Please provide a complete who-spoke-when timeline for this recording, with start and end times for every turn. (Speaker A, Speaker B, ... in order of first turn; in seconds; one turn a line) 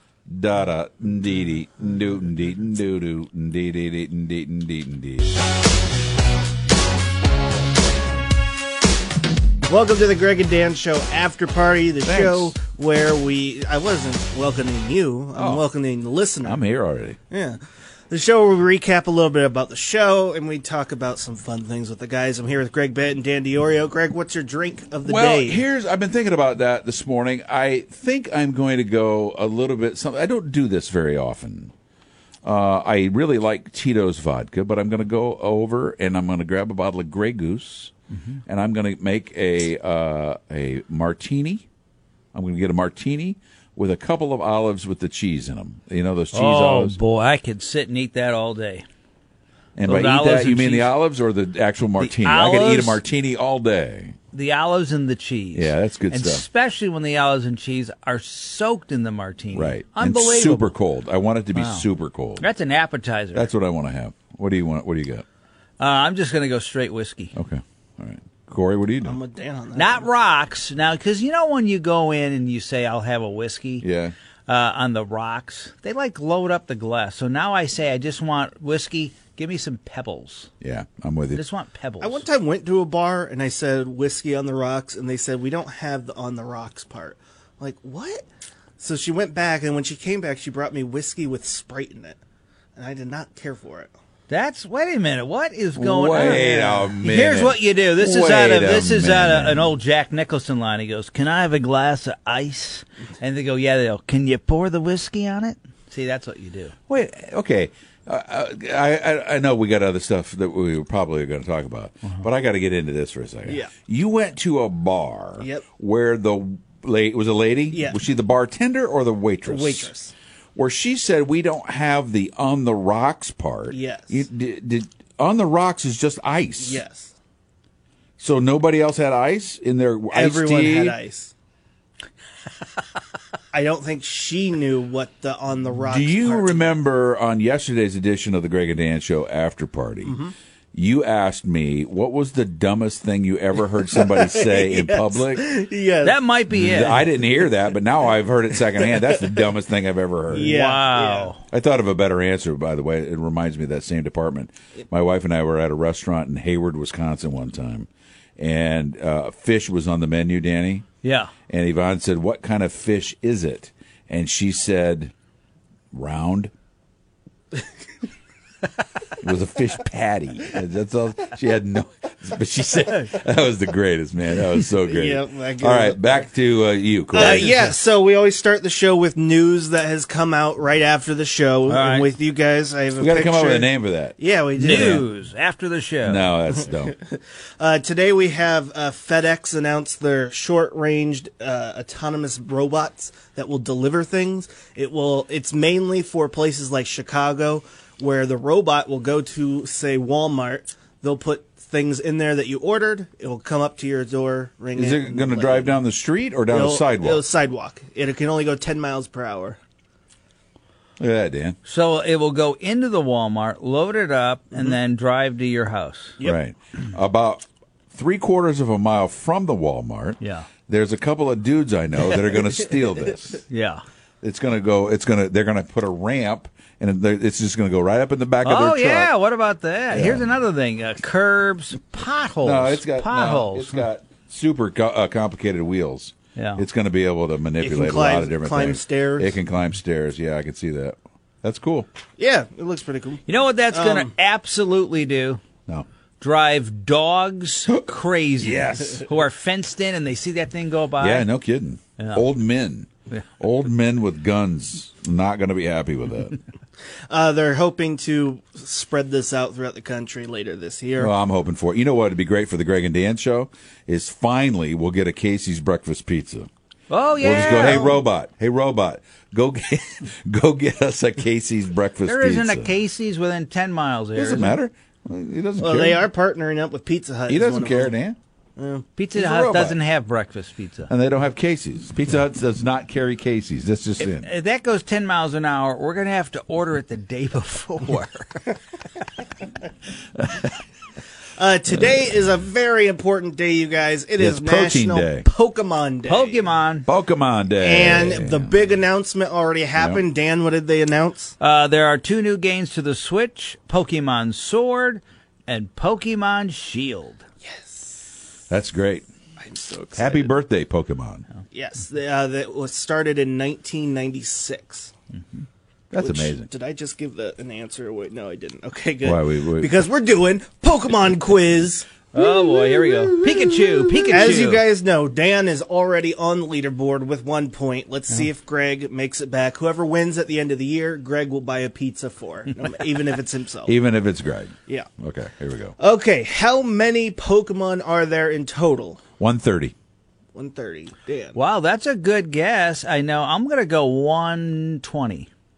Speaker A: 0.3-5.3
Speaker B: 9.7-16.6
Speaker A: 12.0-12.6
Speaker A: 15.4-15.7
Speaker A: 16.4-17.2
Speaker B: 17.3-17.6
Speaker B: 18.1-25.6
Speaker A: 25.1-31.7
Speaker A: 32.4-37.9
Speaker A: 38.5-41.7
Speaker A: 42.3-47.0
Speaker C: 46.3-48.9
Speaker A: 49.8-54.2
Speaker C: 49.9-51.0
Speaker C: 52.0-53.0
Speaker C: 54.3-60.8
Speaker A: 55.5-56.5
Speaker A: 59.5-62.5
Speaker C: 61.5-61.9
Speaker C: 62.4-63.5
Speaker A: 63.3-65.2
Speaker C: 65.8-67.3
Speaker A: 67.3-69.2
Speaker B: 69.0-70.1
Speaker C: 69.8-73.8
Speaker A: 73.8-74.2
Speaker C: 74.5-80.5
Speaker A: 80.6-81.4
Speaker C: 81.3-82.2
Speaker B: 82.0-88.2
Speaker B: 88.8-92.2
Speaker B: 92.8-93.9
Speaker C: 94.3-106.8
Speaker A: 95.8-99.8
Speaker A: 106.9-119.9
Speaker B: 113.5-113.7
Speaker B: 115.4-115.7
Speaker B: 117.7-118.0
Speaker B: 119.5-120.1
Speaker A: 120.6-126.8
Speaker B: 123.7-124.2
Speaker B: 126.6-127.2
Speaker A: 128.2-131.0
Speaker B: 130.1-131.3
Speaker B: 133.5-136.8
Speaker A: 135.8-140.2
Speaker B: 140.0-140.3
Speaker A: 140.7-145.5
Speaker B: 143.9-146.2
Speaker C: 146.0-147.1
Speaker A: 146.5-150.6
Speaker B: 148.7-149.2
Speaker B: 150.3-151.3
Speaker C: 150.4-151.4
Speaker A: 151.5-160.8
Speaker C: 161.0-161.3
Speaker A: 161.5-165.1
Speaker A: 165.9-166.5
Speaker A: 169.1-177.5
Speaker B: 174.8-176.1
Speaker B: 177.1-185.1
Speaker C: 177.2-177.6
Speaker C: 181.7-182.1
Speaker A: 183.0-185.1
Speaker C: 184.6-186.4
Speaker A: 186.0-186.9
Speaker B: 186.6-205.8
Speaker A: 204.8-207.2
Speaker B: 206.5-209.6
Speaker A: 211.0-211.6
Speaker C: 211.7-216.2
Speaker A: 216.2-223.4
Speaker C: 220.2-220.5
Speaker C: 223.5-223.8
Speaker A: 224.2-229.1
Speaker C: 228.4-233.9
Speaker A: 229.9-230.3
Speaker A: 232.4-241.9
Speaker C: 236.4-236.6
Speaker B: 237.6-239.4
Speaker B: 242.2-244.1
Speaker C: 243.3-245.4
Speaker C: 246.2-251.3
Speaker A: 248.4-249.0
Speaker A: 251.0-256.4
Speaker C: 252.0-252.2
Speaker B: 257.1-261.1
Speaker A: 261.0-266.5
Speaker C: 266.9-268.0
Speaker A: 267.2-272.8
Speaker B: 267.7-268.0
Speaker C: 272.1-274.6
Speaker A: 274.1-276.1
Speaker B: 275.6-278.0
Speaker A: 277.3-278.2
Speaker B: 278.6-278.9
Speaker C: 279.0-280.9
Speaker A: 279.1-279.8
Speaker A: 280.9-284.3
Speaker C: 284.0-288.6
Speaker B: 291.4-296.5
Speaker A: 294.2-295.3
Speaker C: 296.1-296.9
Speaker A: 296.9-298.5
Speaker B: 297.6-301.4
Speaker A: 299.8-300.0
Speaker C: 301.4-307.2
Speaker B: 307.4-308.0
Speaker A: 308.5-309.1
Speaker B: 309.4-310.4
Speaker A: 310.0-311.3
Speaker B: 311.5-314.9
Speaker A: 315.9-316.5
Speaker B: 316.0-323.1
Speaker A: 319.0-319.7
Speaker C: 322.1-324.6
Speaker A: 323.7-324.6
Speaker B: 324.1-333.7
Speaker A: 333.7-335.8
Speaker B: 335.8-339.0
Speaker A: 339.2-339.7
Speaker B: 340.4-341.4
Speaker C: 341.4-345.3